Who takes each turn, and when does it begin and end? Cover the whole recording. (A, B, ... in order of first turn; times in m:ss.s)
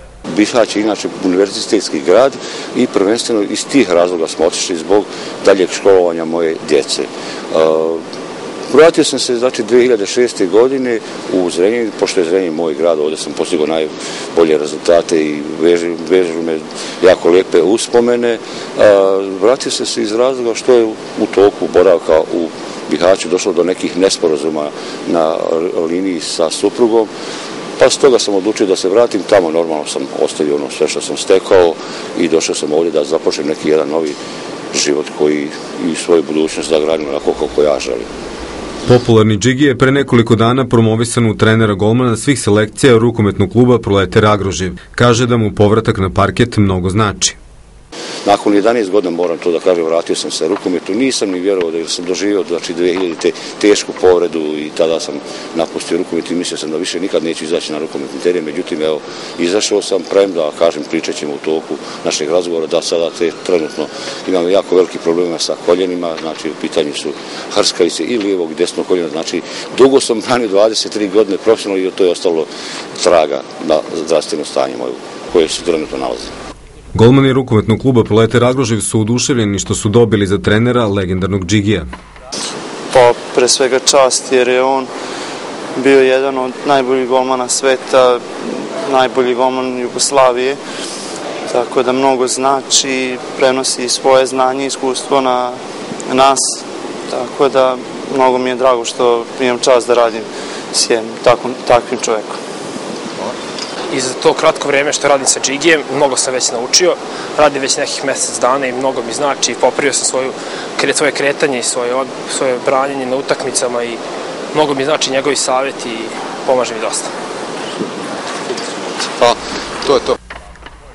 0:00.3-0:08.0 A
0:08.7-0:27.1 A
0:27.8-0:34.2 A
0:34.7-0:38.1 A
0:38.8-0:47.4 B
0:48.2-1:16.3 A
1:17.0-1:21.9 B
1:22.9-1:24.9 C
1:25.8-1:28.2 C
1:28.8-1:30.6 C
1:31.5-1:35.6 C
1:36.1-1:42.4 C
1:43.9-1:54.0 D
1:54.5-1:57.1 D